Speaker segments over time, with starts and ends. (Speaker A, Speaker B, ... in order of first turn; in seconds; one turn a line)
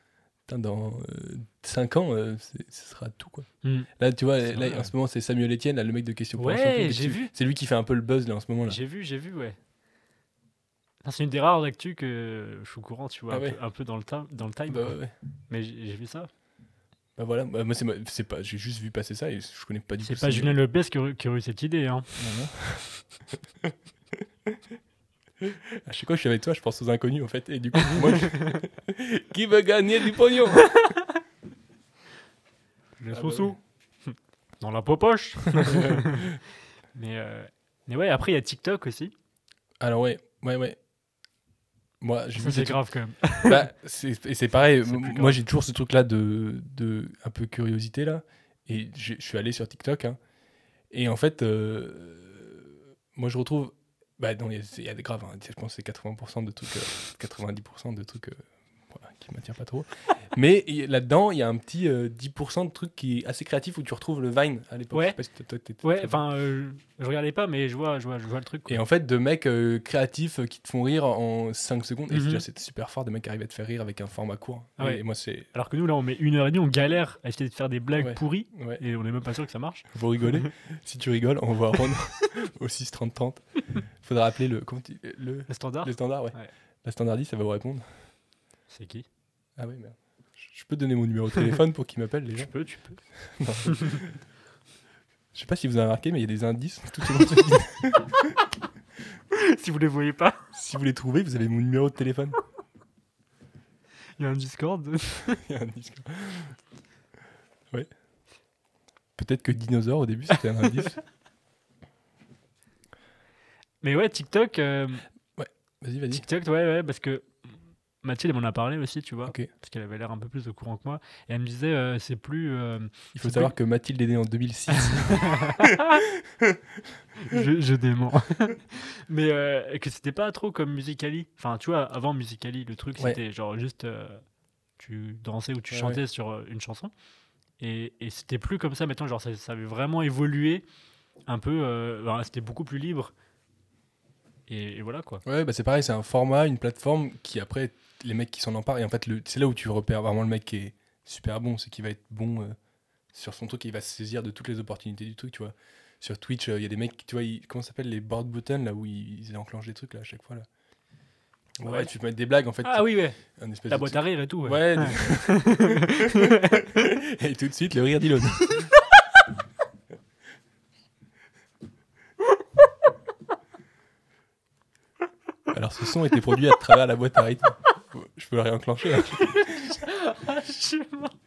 Speaker A: 0.5-8.8
Speaker B: 3.6-3.9
Speaker B: 4.4-4.9
Speaker B: 6.3-7.3
Speaker B: 8.7-9.6
Speaker B: 11.0-14.9
Speaker A: 13.3-13.6
Speaker A: 14.7-15.1
Speaker B: 15.5-16.3
Speaker A: 17.2-20.6
Speaker B: 20.0-22.1
Speaker A: 22.2-22.9
Speaker A: 25.4-30.9
Speaker B: 33.0-36.4
Speaker A: 33.1-33.5
Speaker A: 35.6-36.4
Speaker B: 36.9-39.1
Speaker A: 39.8-40.8
Speaker A: 42.0-42.8
Speaker B: 42.4-43.7
Speaker A: 43.4-50.2
Speaker B: 44.8-45.4
Speaker A: 50.9-66.2
Speaker B: 64.9-65.2
Speaker B: 65.8-68.8
Speaker A: 68.7-75.5
Speaker B: 72.1-72.4
Speaker B: 75.5-80.5
Speaker A: 77.9-78.8
Speaker A: 79.9-87.9
Speaker B: 85.5-86.5
Speaker B: 88.7-89.0
Speaker A: 89.6-92.5
Speaker B: 92.3-93.0
Speaker A: 93.2-94.2
Speaker B: 93.6-94.0
Speaker A: 95.3-98.4
Speaker B: 99.3-100.5
Speaker A: 100.5-102.4
Speaker B: 104.2-105.4
Speaker A: 105.3-106.6
Speaker A: 109.2-111.0
Speaker B: 113.8-115.0
Speaker A: 115.4-116.2
Speaker B: 116.1-123.5
Speaker A: 123.1-126.5
Speaker B: 124.7-126.0
Speaker B: 127.2-134.2
Speaker B: 134.8-136.9
Speaker A: 135.7-136.0
Speaker B: 137.6-140.6
Speaker B: 141.2-143.1
Speaker B: 144.5-145.2
Speaker A: 145.2-152.6
Speaker A: 153.1-160.4
Speaker A: 161.6-168.7
Speaker B: 161.6-161.9
Speaker B: 162.6-166.8
Speaker A: 175.5-179.8
Speaker B: 179.0-181.1